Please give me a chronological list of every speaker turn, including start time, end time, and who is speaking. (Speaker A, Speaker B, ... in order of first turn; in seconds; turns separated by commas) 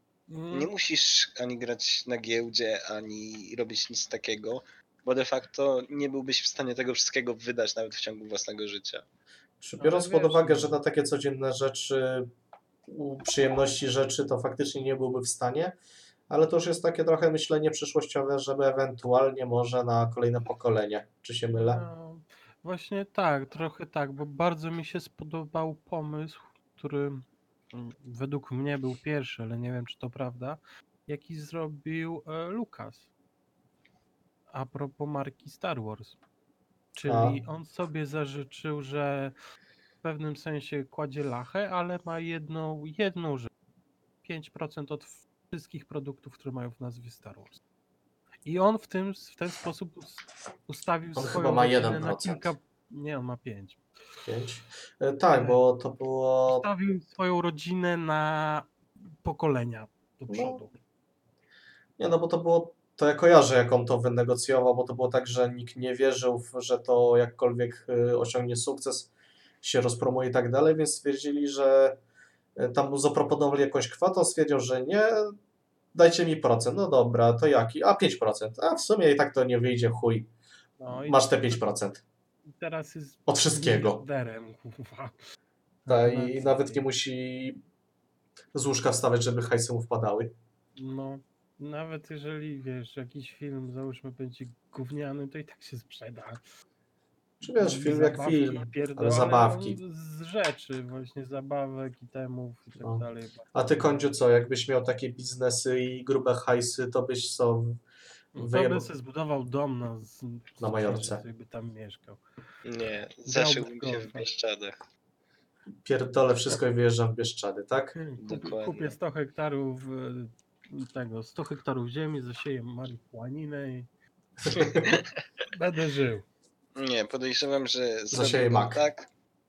Speaker A: 0.3-0.7, Speaker B: 0.5-9.1, Speaker C: 9.6-12.3, Speaker A: 9.8-10.8, Speaker C: 12.9-15.8, Speaker C: 16.3-21.8, Speaker A: 21.5-33.1, Speaker A: 34.5-36.2, Speaker A: 36.9-39.3, Speaker C: 37.0-37.4, Speaker A: 40.0-43.5, Speaker A: 44.2-47.6, Speaker A: 48.5-53.8, Speaker C: 51.2-52.5, Speaker C: 54.2-56.6, Speaker A: 55.3-55.6, Speaker A: 56.5-58.7, Speaker A: 59.2-60.8, Speaker C: 60.3-60.6, Speaker C: 62.0-69.1, Speaker C: 69.6-72.0, Speaker C: 72.6-75.3, Speaker C: 75.9-80.3, Speaker A: 80.8-81.6, Speaker C: 80.9-82.0, Speaker A: 82.5-85.2, Speaker C: 83.3-84.0, Speaker A: 85.8-86.9, Speaker C: 85.9-87.6, Speaker C: 88.5-90.3, Speaker A: 90.8-96.4, Speaker C: 97.4-99.8, Speaker A: 97.6-103.6, Speaker C: 102.8-107.8, Speaker A: 108.3-112.2, Speaker C: 108.4-108.9, Speaker C: 110.6-111.2, Speaker B: 112.7-114.8, Speaker A: 113.3-114.3, Speaker C: 115.8-118.0, Speaker A: 118.0-123.9, Speaker B: 118.2-119.0, Speaker C: 124.4-125.0, Speaker B: 124.5-125.0, Speaker A: 125.5-126.3, Speaker B: 126.8-129.1, Speaker C: 128.1-128.8